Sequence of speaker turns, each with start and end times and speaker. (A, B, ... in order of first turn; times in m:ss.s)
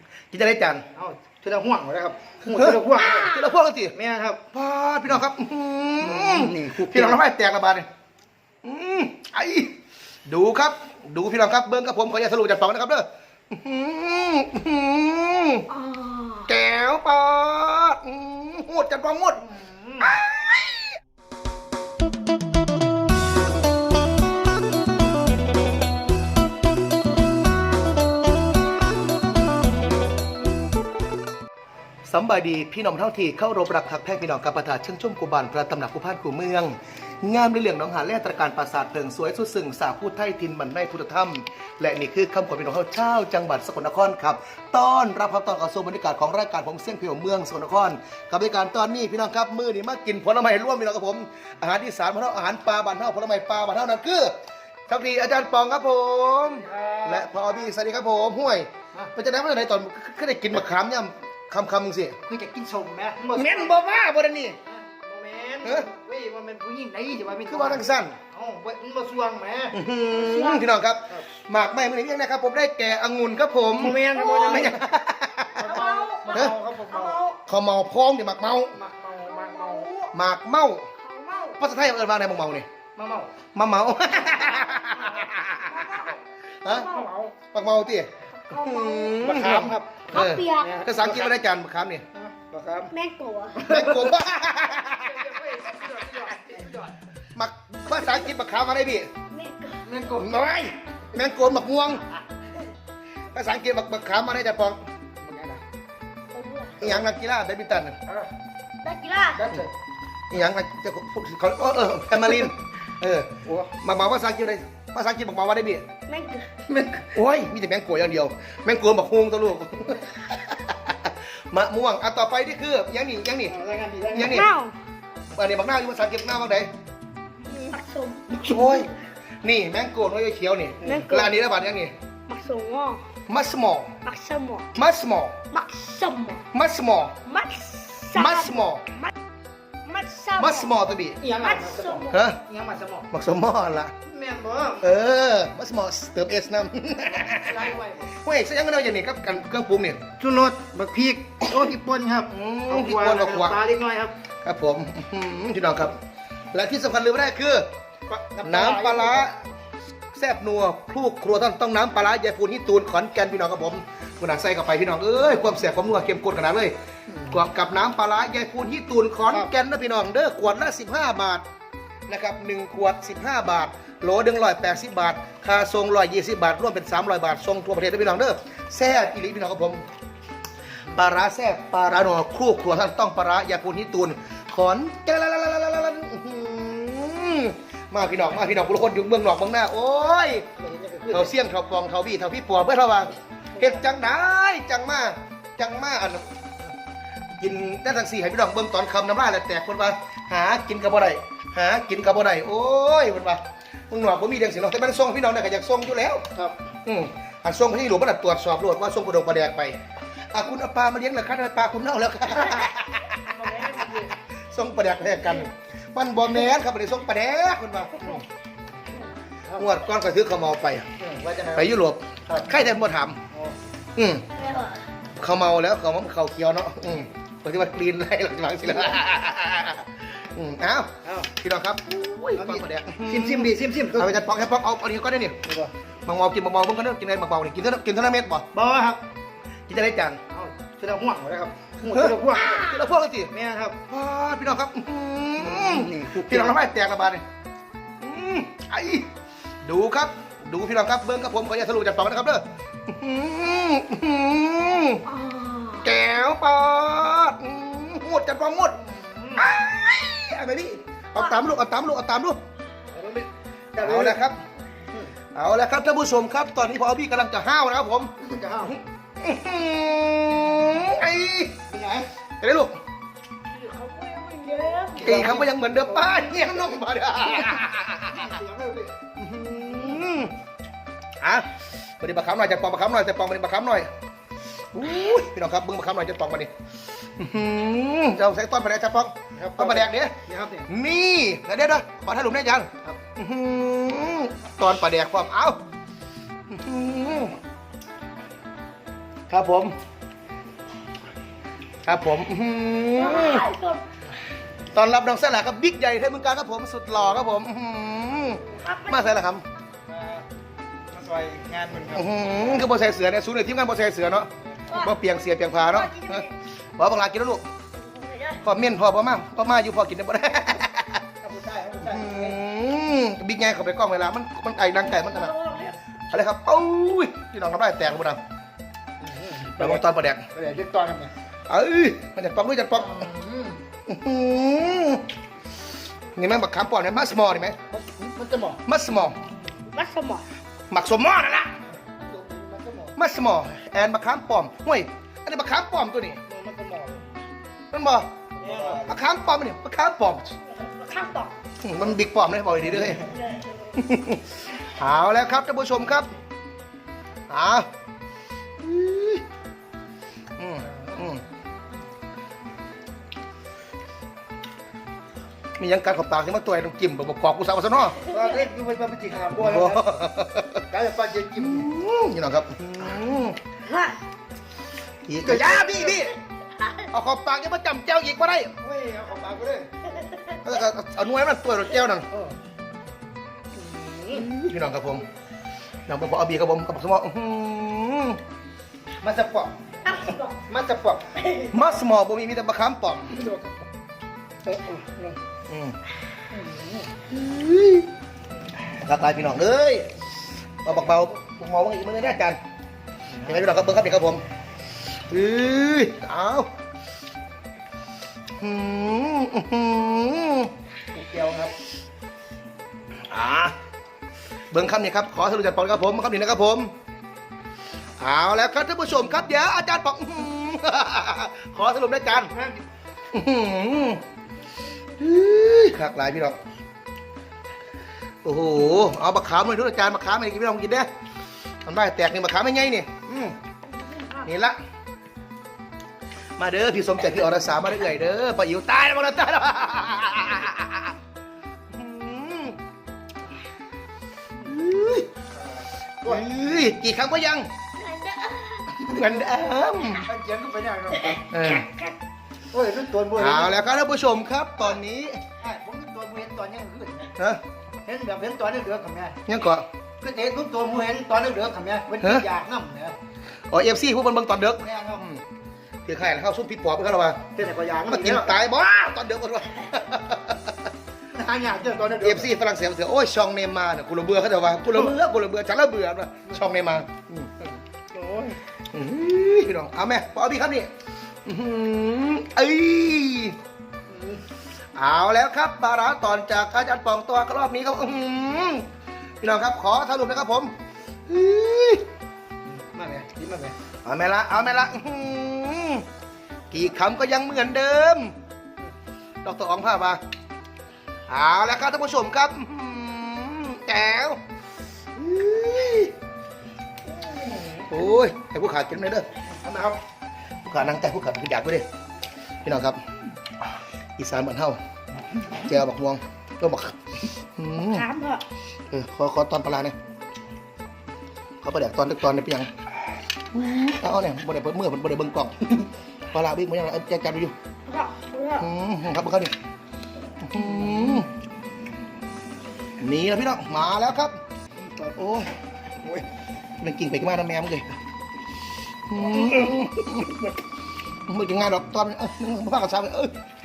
0:00.3-0:00.8 A
0:01.0-0:03.4 B
0:02.5-0:04.0 A
0:03.9-0:04.4 B
0:04.5-0:07.9 A
0:06.0-0:07.2 B
0:08.6-0:09.8 A
0:10.3-0:15.7 A
0:15.7-0:16.5 C
0:16.5-0:19.4 A
0:19.5-0:20.1 B
0:20.0-0:21.0 A
0:32.0-0:54.4 A
0:54.9-1:02.2 A
0:56.4-0:57.4 B
1:02.2-1:03.8 B
1:03.3-1:04.6 A
1:04.6-1:09.8 B
1:07.5-1:08.2 A
1:09.7-1:15.7 A
1:10.2-1:10.6 C
1:13.8-1:14.8 B
1:14.1-1:14.7 C
1:15.6-1:17.2 B
1:15.6-1:17.4 C
1:17.5-1:18.8 A
1:18.7-1:20.0 B
1:19.3-1:20.1 C
1:20.1-1:20.9 A
1:21.0-1:21.6 C
1:21.6-1:22.7 A
1:23.0-1:23.3 B
1:23.6-1:25.8 A
1:25.6-1:27.1 C
1:26.6-1:26.9 A
1:26.8-1:27.3 B
1:27.5-1:32.0 A
1:28.3-1:29.3 C
1:29.2-1:31.2 B
1:30.1-1:31.2 C
1:32.2-1:32.9 B
1:32.9-1:33.7 C
1:33.6-1:35.3 A
1:33.7-1:34.2 B
1:34.9-1:37.0 B
1:37.4-1:39.1 A
1:39.3-1:39.9 C
1:39.8-1:40.5 B
1:40.2-1:42.0 A
1:43.3-1:44.9 A
1:45.2-1:45.6 B
1:46.3-1:46.8 C
1:46.8-1:48.0 A
1:48.8-1:49.5 C
1:49.4-1:49.7 B
1:50.3-1:55.8 A
1:53.4-1:53.7 B
1:56.1-1:56.5 C
1:56.7-1:57.1 B
1:57.1-2:03.6 A
2:03.5-2:04.5 B
2:04.1-2:04.5 A
2:04.2-2:04.8 C
2:05.3-2:06.7 A
2:07.5-2:08.9 C
2:08.4-2:08.9 A
2:09.4-2:11.9 A
2:10.8-2:11.5 C
2:12.3-2:13.0 C
2:13.3-2:13.9 A
2:14.0-2:14.7 C
2:14.8-2:15.4 A
2:15.5-2:16.5 C
2:16.5-2:17.2 A
2:17.2-2:19.1 C
2:18.2-2:18.8 A
2:19.8-2:20.7 C
2:20.4-2:21.2 A
2:21.2-2:23.1 B
2:21.4-2:22.2 C
2:22.1-2:22.4 A
2:23.1-2:23.9 A
2:24.1-2:24.9 B
2:24.8-2:30.0 A
2:27.2-2:28.1 B
2:30.2-2:34.2 B
2:32.3-2:33.6 A
2:34.4-2:36.0 A
2:36.5-2:37.7 A
2:38.1-2:39.4 B
2:38.4-2:39.4 A
2:40.1-2:51.4 A
2:52.1-2:59.8 A
3:00.9-3:10.5 A
3:10.6-3:11.3 B
3:11.1-3:16.3 A
3:17.4-3:26.3 A
3:26.8-3:29.8 A
3:30.3-3:33.4 A
3:33.2-3:34.1 B
3:34.5-3:38.2 A
3:39.5-3:40.9 A
3:41.0-3:41.7 B
3:41.6-3:43.2 A
3:42.3-3:42.7 B
3:43.3-3:43.6 B
3:44.0-3:44.3 A
3:44.4-3:44.8 C
3:45.2-3:55.4 A
3:51.0-3:51.3 B
3:52.4-3:54.2 B
3:55.4-3:55.7 B
3:56.1-3:58.5 A
3:58.5-3:59.0 B
3:59.7-4:00.2 A
4:00.3-4:02.8 B
4:01.9-4:03.3 A
4:03.3-4:03.8 B
4:03.9-4:07.2 A
4:05.4-4:06.6 B
4:08.0-4:09.1 A
4:09.6-4:15.1 A
4:15.1-4:15.9 C
4:15.8-4:18.8 A
4:18.9-4:19.5 B
4:19.4-4:22.4 A
4:22.9-4:24.2 B
4:23.8-4:24.4 A
4:25.3-4:31.6 A
4:28.2-4:28.8 B
4:31.7-4:32.1 B
4:32.4-4:32.8 A
4:33.6-4:35.3 C
4:34.9-4:36.3 B
4:35.0-4:38.4 A
4:38.1-4:39.0 B
4:39.2-4:40.4 A
4:39.7-4:40.0 B
4:41.2-4:43.9 A
4:44.7-4:46.5 A
4:47.2-4:55.6 A
4:49.4-4:50.7 B
4:56.5-4:57.4 A
4:59.3-4:59.8 A
5:01.8-5:03.5 A
5:03.0-5:03.8 C
5:04.7-5:09.4 A
5:08.4-5:09.2 C
5:09.9-5:10.3 B
5:10.9-5:12.7 B
5:11.9-5:17.5 A
5:14.7-5:15.0 C
5:15.7-5:16.3 C
5:17.7-5:18.4 C
5:18.4-5:21.0 A
5:21.2-5:22.4 B
5:21.8-5:25.4 A
5:24.8-5:25.8 C
5:26.1-5:28.2 A
5:29.0-5:31.1 B
5:29.5-5:30.3 A
5:31.5-5:33.1 A
5:32.9-5:33.6 B
5:33.9-5:35.1 A
5:36.2-5:37.6 A
5:37.7-5:38.6 B
5:38.6-5:39.2 A
5:39.7-5:40.3 C
5:40.7-5:41.5 A
5:41.8-5:43.0 B
5:43.0-5:46.2 A
5:46.3-5:47.1 B
5:47.7-5:50.3 A
5:48.4-5:49.0 B
5:50.6-5:51.4 C
5:51.6-5:53.0 A
5:52.9-5:53.7 C
5:53.8-5:56.1 A
5:57.3-5:57.7 A
5:58.6-5:59.2 A
6:00.4-6:01.2 A
6:05.6-6:08.0 A
6:08.0-6:09.9 B
6:09.4-6:10.7 A
6:10.7-6:11.7 B
6:11.4-6:13.4 A
6:13.6-6:14.0 C
6:15.1-6:16.2 A
6:15.2-6:16.1 B
6:16.9-6:18.6 A
6:18.6-6:19.7 B
6:20.0-6:20.4 C
6:20.4-6:22.1 A
6:23.5-6:24.3 B
6:24.1-6:25.0 A
6:25.9-6:28.2 A
6:29.0-6:29.5 B
6:29.8-6:30.4 C
6:30.5-6:31.1 B
6:31.2-6:31.7 C
6:31.5-6:33.3 A
6:33.2-6:33.6 B
6:34.4-6:35.2 B
6:35.5-6:35.8 A
6:36.3-6:36.9 B
6:37.1-6:37.9 A
6:38.7-6:39.9 A
6:40.6-6:42.4 A
6:43.2-6:44.2 A
6:45.1-6:46.5 A
6:48.4-6:50.5 A
6:50.9-6:51.6 B
6:53.1-6:53.6 A
6:54.5-6:56.7 A
6:58.0-7:02.3 A
7:02.1-7:02.6 B
7:03.1-7:04.0 A
7:04.9-7:06.4 A
7:08.2-7:10.9 A
7:11.6-7:13.4 A
7:13.8-7:14.2 C
7:14.2-7:14.6 A
7:16.4-7:21.0 A
7:21.7-7:22.6 A
7:24.4-7:25.1 A
7:26.0-7:26.3 B
7:26.0-7:27.5 A
7:27.8-7:29.4 C
7:28.8-7:30.1 A
7:30.1-7:31.2 B
7:31.0-7:32.0 C
7:31.3-7:31.7 A
7:32.5-7:33.6 B
7:33.2-7:35.2 A
7:35.4-7:37.2 B
7:37.8-7:39.2 B
7:39.3-7:39.7 A
7:40.0-7:43.0 B
7:43.5-7:45.2 A
7:44.6-7:45.0 B
7:45.9-7:47.3 A
7:47.3-7:48.4 B
7:47.9-7:50.7 A
7:51.1-7:52.3 B
7:52.0-7:57.3 A
7:57.9-7:58.4 B
7:58.7-8:00.7 A
8:01.3-8:03.4 A
8:03.9-8:04.2 B
8:04.8-8:08.7 A
8:09.2-8:10.5 A
8:11.1-8:11.8 A
8:12.5-8:13.6 B
8:13.8-8:15.8 A
8:16.5-8:18.2 A
8:19.2-8:20.0 A
8:21.1-8:24.2 A
8:25.0-8:25.9 A
8:27.2-8:27.6 B
8:27.7-8:29.1 A
8:29.4-8:29.8 B
8:30.4-8:31.7 A
8:32.4-8:32.8 A
8:34.0-8:34.6 A
8:35.4-8:37.9 A
8:37.6-8:38.2 C
8:38.7-8:39.8 A
8:41.4-8:42.5 A
8:43.3-8:47.4 A
8:47.7-8:48.5 C
8:48.4-8:49.4 A
8:50.2-8:51.1 A
8:52.8-8:54.2 A
8:54.8-8:55.3 A
8:56.6-8:57.7 A
8:58.9-9:00.3 A
9:01.1-9:03.2 A